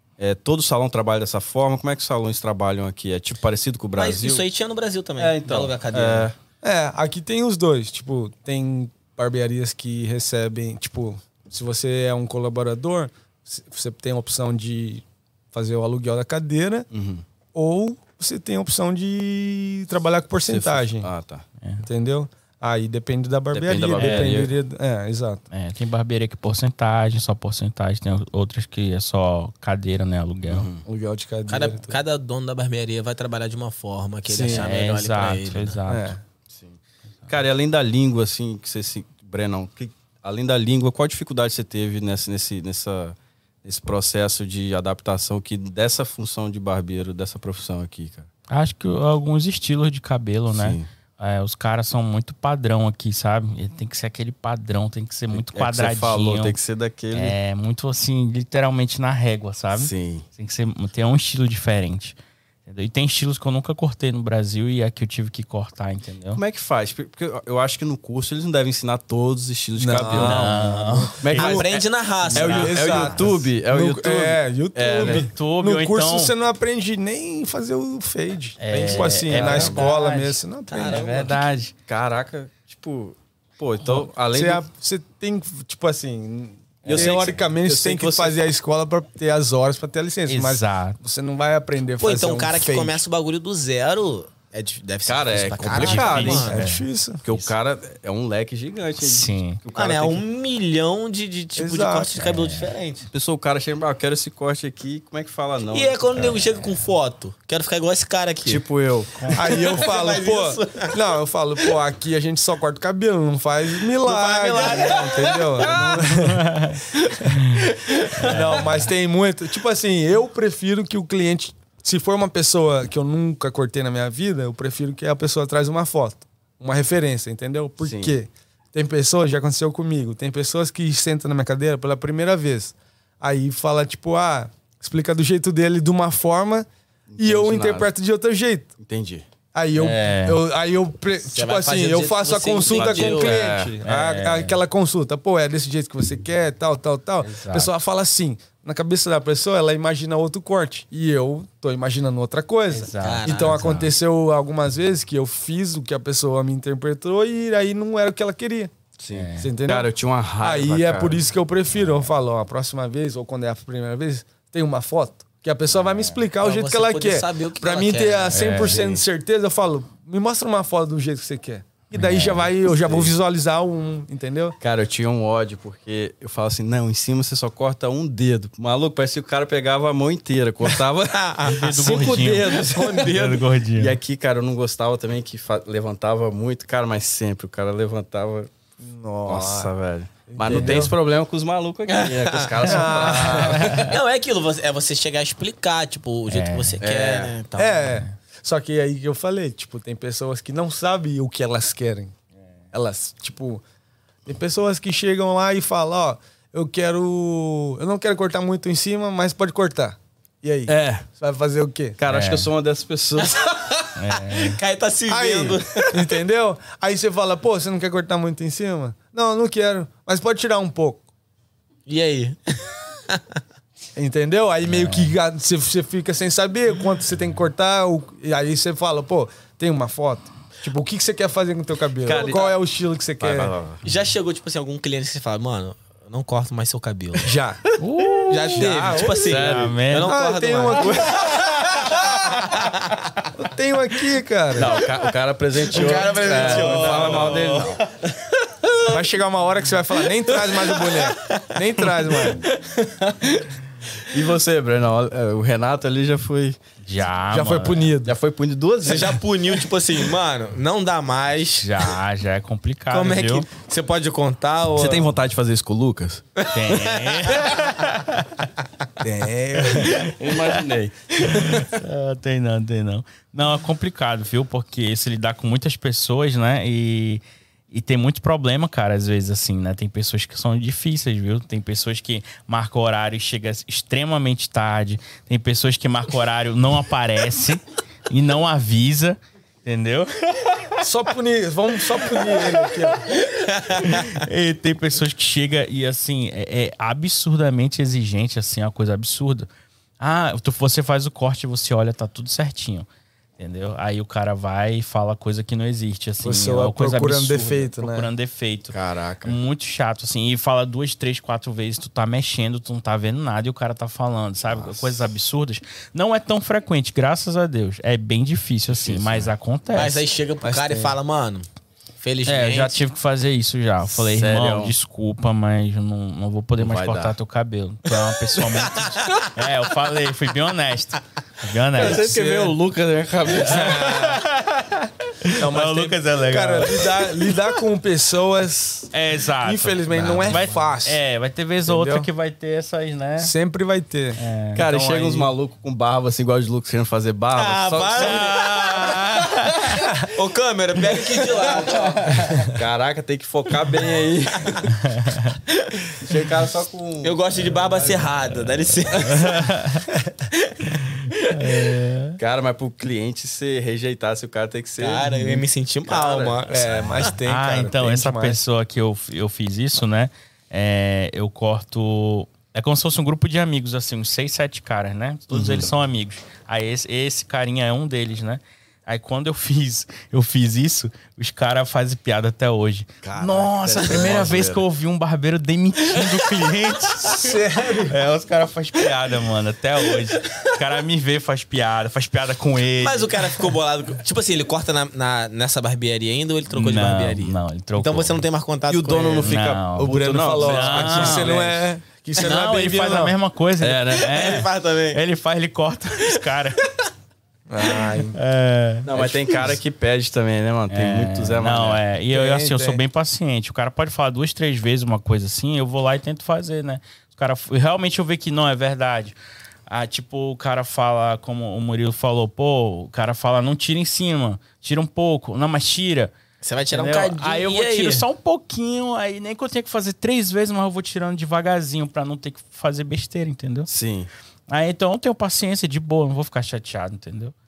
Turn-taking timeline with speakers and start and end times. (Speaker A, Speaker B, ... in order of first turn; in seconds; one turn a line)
Speaker A: 0.2-4.5
Speaker B: 4.0-6.3
Speaker A: 5.2-6.3
Speaker C: 6.6-16.9
Speaker A: 16.9-17.2
Speaker C: 17.5-21.1
Speaker A: 20.5-21.4
Speaker D: 21.6-21.9
Speaker C: 21.8-25.4
Speaker A: 23.5-24.5
Speaker D: 24.0-24.4
Speaker D: 25.5-30.7
Speaker A: 30.5-30.8
Speaker C: 30.8-32.0
Speaker B: 31.5-35.8
Speaker C: 34.3-34.7
Speaker D: 34.5-36.2
Speaker C: 35.9-36.2
Speaker A: 36.5-48.3
Speaker D: 48.5-56.6
Speaker A: 50.5-50.9
Speaker A: 55.3-57.4
Speaker D: 57.1-66.4
Speaker A: 59.7-60.2
Speaker A: 66.3-70.5
Speaker C: 69.8-71.5
Speaker D: 70.1-71.7
Speaker A: 71.2-75.3
Speaker B: 71.3-73.3
Speaker C: 72.3-81.1
Speaker D: 74.9-76.3
Speaker D: 78.6-81.7
Speaker A: 79.2-79.9
Speaker B: 80.7-81.5
Speaker A: 81.9-84.7
Speaker C: 84.3-93.0
Speaker A: 86.8-88.4
Speaker D: 86.9-87.2
Speaker D: 90.3-91.0
Speaker B: 92.0-96.6
Speaker A: 95.0-96.5
Speaker D: 95.7-97.5
Speaker C: 96.4-97.2
Speaker A: 97.2-100.2
Speaker D: 99.0-99.6
Speaker B: 99.8-103.1
Speaker C: 101.5-102.2
Speaker D: 102.2-102.7
Speaker A: 103.1-106.3
Speaker B: 105.7-108.6
Speaker D: 106.2-106.5
Speaker A: 108.5-109.1
Speaker B: 109.3-111.0
Speaker C: 109.3-116.7
Speaker B: 114.0-116.1
Speaker D: 116.1-118.9
Speaker B: 117.0-118.4
Speaker C: 117.2-117.5
Speaker C: 118.2-136.7
Speaker A: 127.8-128.1
Speaker A: 137.1-137.9
Speaker C: 137.2-138.7
Speaker A: 138.8-139.2
Speaker C: 139.5-158.7
Speaker D: 139.8-140.4
Speaker B: 141.3-143.4
Speaker A: 142.7-143.8
Speaker D: 143.8-144.6
Speaker D: 147.2-147.7
Speaker D: 152.7-153.9
Speaker B: 153.0-153.7
Speaker A: 159.0-161.2
Speaker D: 159.1-159.5
Speaker C: 159.4-159.9
Speaker C: 160.4-174.6
Speaker B: 166.4-168.6
Speaker D: 168.3-168.9
Speaker D: 171.9-172.5
Speaker A: 172.6-173.1
Speaker A: 174.6-188.5
Speaker B: 180.7-183.3
Speaker D: 181.4-184.0
Speaker C: 188.8-189.7
Speaker A: 189.3-193.8
Speaker C: 190.3-190.9
Speaker B: 191.9-197.9
Speaker C: 192.6-193.8
Speaker D: 193.5-193.9
Speaker D: 196.3-196.8
Speaker A: 196.8-197.3
Speaker C: 197.6-202.1
Speaker C: 202.7-203.6
Speaker C: 204.2-212.0
Speaker A: 210.7-211.1
Speaker A: 212.0-213.4
Speaker D: 212.1-212.5
Speaker B: 213.2-216.1
Speaker D: 214.0-214.6
Speaker C: 215.1-221.0
Speaker B: 221.9-223.4
Speaker C: 224.0-233.5
Speaker D: 224.7-225.1
Speaker A: 232.0-232.5
Speaker B: 232.1-232.5
Speaker A: 233.2-233.8
Speaker B: 233.8-237.3
Speaker C: 237.2-237.6
Speaker D: 237.8-238.7
Speaker B: 238.3-243.2
Speaker C: 238.5-239.3
Speaker A: 239.2-239.8
Speaker D: 239.3-240.1
Speaker C: 240.0-241.2
Speaker A: 240.8-241.2
Speaker C: 243.3-244.8
Speaker A: 244.5-247.9
Speaker B: 245.7-247.3
Speaker C: 245.7-247.3
Speaker D: 246.5-247.8
Speaker C: 248.9-252.4
Speaker B: 250.2-253.5
Speaker A: 254.1-256.6
Speaker D: 256.8-257.9
Speaker C: 257.3-258.1
Speaker A: 258.0-259.2
Speaker B: 258.8-262.0
Speaker D: 261.6-263.5
Speaker B: 262.9-265.1
Speaker A: 264.8-266.2
Speaker B: 266.4-267.7
Speaker D: 266.5-268.4
Speaker C: 269.0-270.1
Speaker D: 269.6-270.4
Speaker A: 270.1-271.8
Speaker D: 271.2-290.8
Speaker C: 290.8-293.2
Speaker D: 292.1-299.5
Speaker B: 293.7-294.0
Speaker D: 300.0-302.9
Speaker D: 303.4-320.0
Speaker C: 306.2-308.1
Speaker A: 308.7-309.4
Speaker A: 314.4-315.1
Speaker A: 318.7-319.3
Speaker B: 319.7-321.5
Speaker C: 320.4-321.0
Speaker B: 322.0-322.8
Speaker D: 322.2-332.5
Speaker A: 323.9-324.8
Speaker A: 326.6-327.2
Speaker A: 331.8-334.1
Speaker D: 333.3-337.3
Speaker C: 333.5-334.2
Speaker C: 335.3-341.0
Speaker D: 338.9-343.3
Speaker C: 341.6-342.1
Speaker C: 343.2-344.2
Speaker D: 344.2-345.3
Speaker A: 344.5-348.5
Speaker B: 347.3-349.3
Speaker D: 348.0-350.0
Speaker B: 350.0-352.3
Speaker A: 351.5-354.7
Speaker D: 354.7-355.4
Speaker B: 355.5-356.0
Speaker A: 356.0-358.1
Speaker B: 357.0-359.4
Speaker D: 359.0-359.9
Speaker B: 360.3-361.7
Speaker D: 361.0-362.2
Speaker A: 362.2-366.7
Speaker B: 364.8-367.1
Speaker C: 366.5-368.4
Speaker D: 367.2-393.5
Speaker A: 375.3-375.7
Speaker A: 383.0-384.6
Speaker C: 387.0-388.0
Speaker B: 392.8-399.4
Speaker D: 396.5-398.2
Speaker A: 398.7-401.6
Speaker D: 399.2-401.5
Speaker C: 399.8-403.2
Speaker D: 402.2-406.6
Speaker A: 403.6-404.2
Speaker B: 404.0-405.0
Speaker C: 407.5-408.2
Speaker D: 408.1-409.5
Speaker A: 408.8-411.8
Speaker D: 410.7-419.2
Speaker C: 412.1-412.8
Speaker D: 419.7-426.1
Speaker B: 426.4-428.1
Speaker D: 426.7-433.7
Speaker A: 433.7-434.1
Speaker D: 434.5-437.3